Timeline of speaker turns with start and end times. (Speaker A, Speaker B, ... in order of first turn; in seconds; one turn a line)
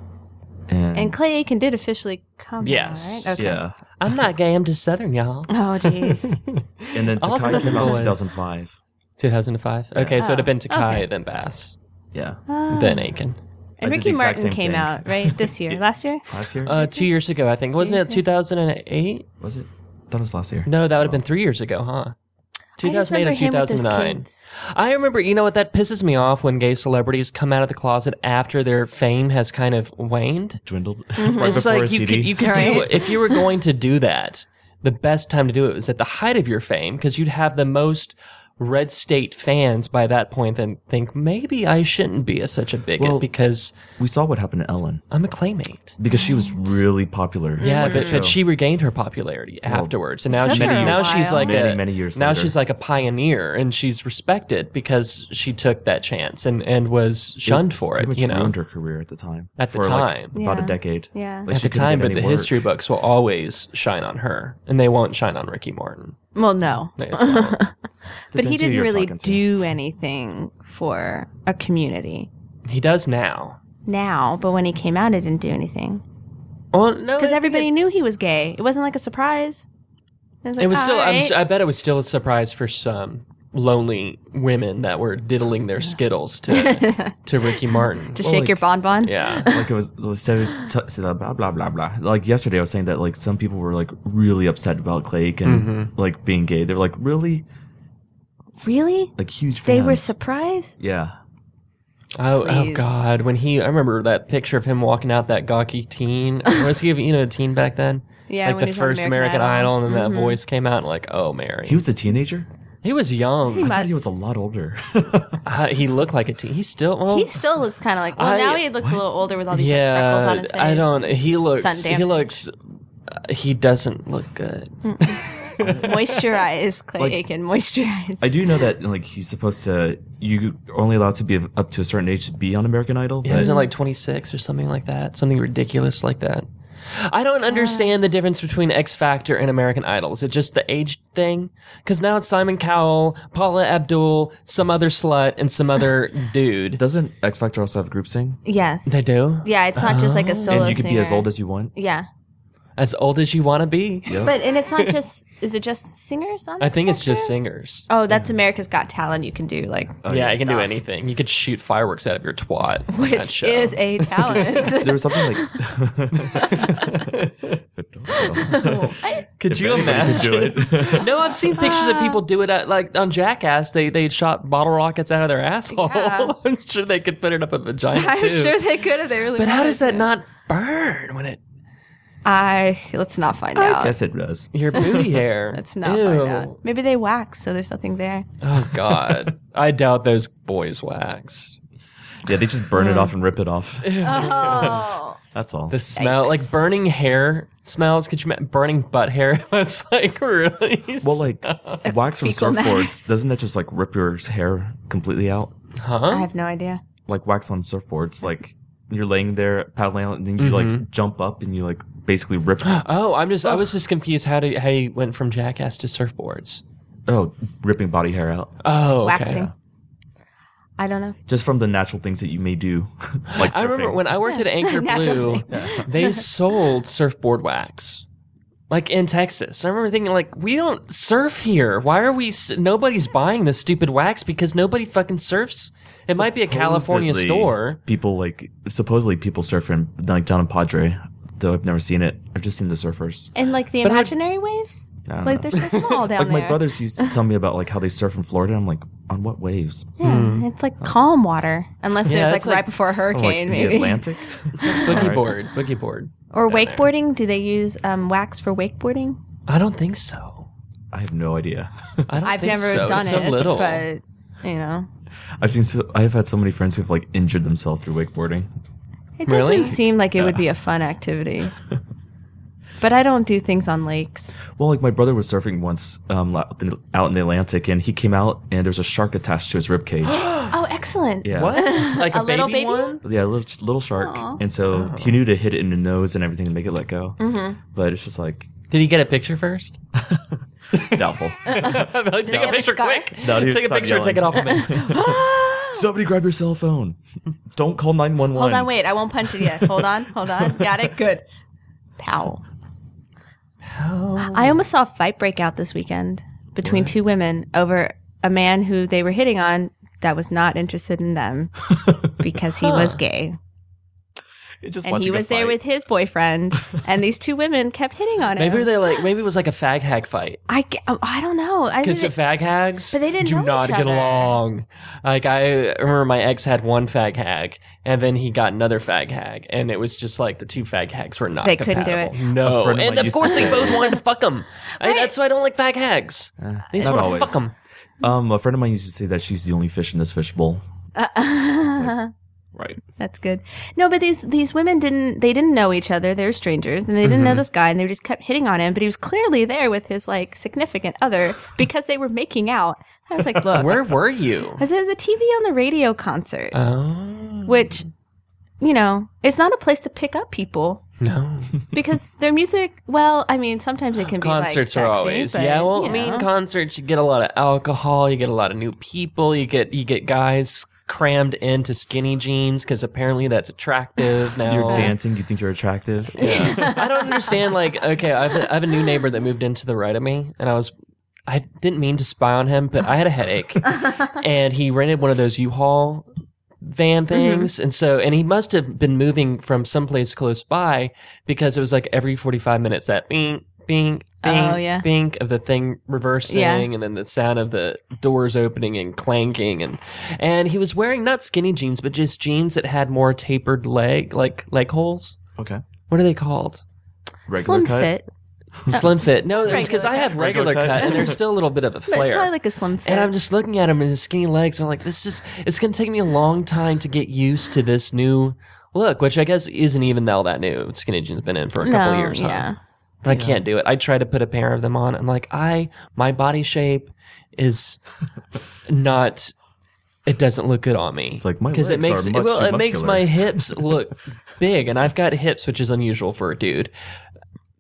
Speaker A: 0.7-1.2
Speaker B: 0.9-3.6
Speaker C: 2.6-8.3
Speaker A: 3.4-3.8
Speaker B: 5.5-6.4
Speaker A: 6.9-8.8
Speaker B: 7.4-8.1
Speaker C: 9.2-11.8
Speaker A: 9.9-10.2
Speaker B: 10.2-11.1
Speaker A: 12.1-12.4
Speaker B: 12.5-13.1
Speaker C: 12.7-13.4
Speaker B: 13.8-17.1
Speaker A: 13.8-16.7
Speaker C: 16.6-19.3
Speaker B: 17.7-18.2
Speaker A: 19.4-21.2
Speaker C: 20.7-22.1
Speaker B: 22.8-24.5
Speaker C: 22.8-30.6
Speaker A: 30.6-32.6
Speaker B: 31.2-31.7
Speaker C: 31.2-43.7
Speaker B: 32.4-33.4
Speaker A: 43.0-43.3
Speaker A: 44.0-45.0
Speaker C: 45.1-46.0
Speaker A: 46.0-48.4
Speaker B: 46.1-46.8
Speaker B: 47.6-48.3
Speaker C: 47.6-58.6
Speaker A: 49.7-52.6
Speaker B: 50.3-51.7
Speaker A: 57.5-62.7
Speaker C: 59.6-60.4
Speaker B: 60.3-61.5
Speaker C: 61.5-66.2
Speaker B: 66.3-67.8
Speaker C: 67.0-67.6
Speaker A: 68.3-69.7
Speaker B: 68.3-72.3
Speaker C: 72.7-73.6
Speaker B: 73.9-76.0
Speaker C: 76.7-77.7
Speaker B: 77.2-79.7
Speaker B: 80.4-81.4
Speaker C: 80.6-88.2
Speaker B: 86.5-89.7
Speaker A: 88.2-88.7
Speaker C: 89.0-89.5
Speaker A: 89.5-97.5
Speaker C: 95.5-95.9
Speaker B: 98.6-100.8
Speaker A: 99.2-100.2
Speaker A: 100.8-101.2
Speaker C: 102.2-111.9
Speaker B: 102.3-103.0
Speaker B: 108.3-110.4
Speaker A: 111.7-112.5
Speaker C: 112.8-113.8
Speaker B: 113.5-113.9
Speaker A: 113.6-115.4
Speaker C: 115.5-117.6
Speaker B: 117.1-122.4
Speaker C: 118.1-118.7
Speaker A: 118.8-119.2
Speaker C: 119.5-122.5
Speaker C: 123.1-126.4
Speaker B: 124.8-128.3
Speaker A: 125.6-126.0
Speaker A: 128.2-133.5
Speaker C: 133.2-146.8
Speaker B: 133.3-133.7
Speaker B: 137.5-138.0
Speaker A: 146.7-148.4
Speaker B: 148.4-152.1
Speaker C: 148.9-150.8
Speaker A: 150.5-151.7
Speaker C: 152.8-154.9
Speaker A: 154.1-154.3
Speaker B: 154.1-157.3
Speaker C: 156.6-157.9
Speaker B: 157.9-160.8
Speaker A: 160.0-160.4
Speaker C: 160.1-164.8
Speaker B: 162.9-165.6
Speaker A: 164.2-167.1
Speaker C: 166.2-167.6
Speaker B: 166.3-166.7
Speaker A: 167.8-171.1
Speaker B: 168.1-169.3
Speaker C: 169.4-178.7
Speaker B: 169.8-172.2
Speaker B: 175.7-176.3
Speaker B: 177.9-180.1
Speaker C: 179.3-181.4
Speaker B: 182.2-184.0
Speaker A: 183.6-185.2
Speaker C: 184.5-186.6
Speaker B: 185.5-188.3
Speaker C: 188.4-191.6
Speaker A: 188.8-189.3
Speaker A: 192.2-195.8
Speaker B: 192.8-193.1
Speaker C: 193.8-194.9
Speaker B: 194.0-195.2
Speaker C: 195.7-201.8
Speaker B: 196.0-196.7
Speaker A: 201.0-205.5
Speaker B: 201.8-203.0
Speaker C: 205.8-206.3
Speaker B: 206.1-206.8
Speaker A: 207.1-212.8
Speaker C: 210.4-210.8
Speaker C: 212.6-216.6
Speaker A: 217.1-218.6
Speaker C: 218.6-219.5
Speaker B: 219.0-219.5
Speaker A: 219.3-219.5
Speaker B: 220.8-221.2
Speaker A: 221.3-224.1
Speaker C: 223.3-228.1
Speaker B: 224.2-226.2
Speaker A: 225.5-225.8
Speaker C: 228.7-237.8
Speaker A: 236.1-243.3
Speaker B: 243.3-247.1
Speaker C: 243.8-244.1
Speaker A: 245.1-249.9
Speaker C: 245.5-246.1
Speaker B: 250.0-254.1
Speaker C: 250.0-250.5
Speaker C: 252.1-252.8
Speaker A: 253.1-255.3
Speaker C: 254.6-256.9
Speaker B: 254.7-255.1
Speaker B: 256.3-259.2
Speaker C: 259.5-260.5
Speaker A: 260.9-262.9
Speaker C: 262.1-263.9
Speaker B: 262.2-264.9
Speaker A: 265.4-268.5
Speaker B: 269.2-271.5
Speaker C: 269.3-269.8
Speaker A: 270.2-270.4
Speaker B: 272.8-274.3
Speaker A: 274.6-280.3
Speaker C: 280.1-280.6
Speaker B: 280.5-283.0
Speaker A: 281.2-281.6
Speaker C: 281.3-283.0
Speaker A: 283.0-287.2
Speaker B: 283.9-284.4
Speaker C: 284.7-285.2
Speaker B: 287.2-287.6
Speaker A: 287.7-288.5
Speaker C: 288.7-289.8
Speaker A: 290.0-290.4
Speaker C: 290.7-295.0
Speaker A: 290.9-292.6
Speaker B: 291.5-293.2
Speaker A: 293.2-297.0
Speaker B: 294.6-295.9
Speaker A: 297.5-298.8
Speaker B: 298.3-301.2
Speaker A: 299.3-300.6
Speaker B: 302.0-302.4
Speaker C: 303.7-304.6
Speaker B: 304.2-311.6
Speaker A: 306.6-306.9
Speaker A: 311.8-312.1
Speaker B: 312.2-313.4
Speaker C: 312.6-313.0
Speaker A: 314.6-315.6
Speaker B: 314.8-318.8
Speaker C: 318.4-320.4
Speaker B: 320.5-322.2
Speaker C: 321.8-337.5
Speaker B: 322.9-324.4
Speaker B: 331.4-332.2
Speaker A: 332.4-333.8
Speaker B: 333.3-334.0
Speaker B: 334.8-335.1
Speaker A: 336.4-337.4
Speaker B: 336.8-337.3
Speaker A: 338.0-340.6
Speaker B: 341.0-342.1
Speaker B: 343.0-353.9
Speaker C: 347.0-347.4
Speaker A: 353.2-353.6
Speaker C: 353.5-354.6
Speaker B: 354.6-356.6
Speaker C: 356.5-357.8
Speaker B: 357.5-357.9
Speaker B: 358.6-360.8
Speaker C: 361.0-361.7
Speaker B: 361.7-366.3
Speaker C: 364.0-374.9
Speaker A: 374.4-376.7
Speaker B: 374.6-374.9
Speaker C: 376.2-380.7
Speaker B: 376.2-377.2
Speaker C: 381.3-386.1
Speaker C: 386.6-405.2
Speaker B: 387.1-387.5
Speaker B: 394.2-394.9
Speaker B: 396.3-396.7
Speaker A: 405.4-405.6
Speaker C: 405.9-406.6
Speaker A: 407.3-408.0
Speaker B: 407.4-408.1
Speaker C: 408.7-422.5
Speaker B: 408.7-410.1
Speaker A: 409.5-411.2
Speaker B: 410.8-411.1
Speaker B: 411.9-413.1
Speaker B: 421.6-422.6
Speaker C: 423.0-427.8
Speaker A: 423.1-423.5
Speaker C: 428.7-429.3
Speaker C: 430.1-436.7
Speaker A: 431.2-433.6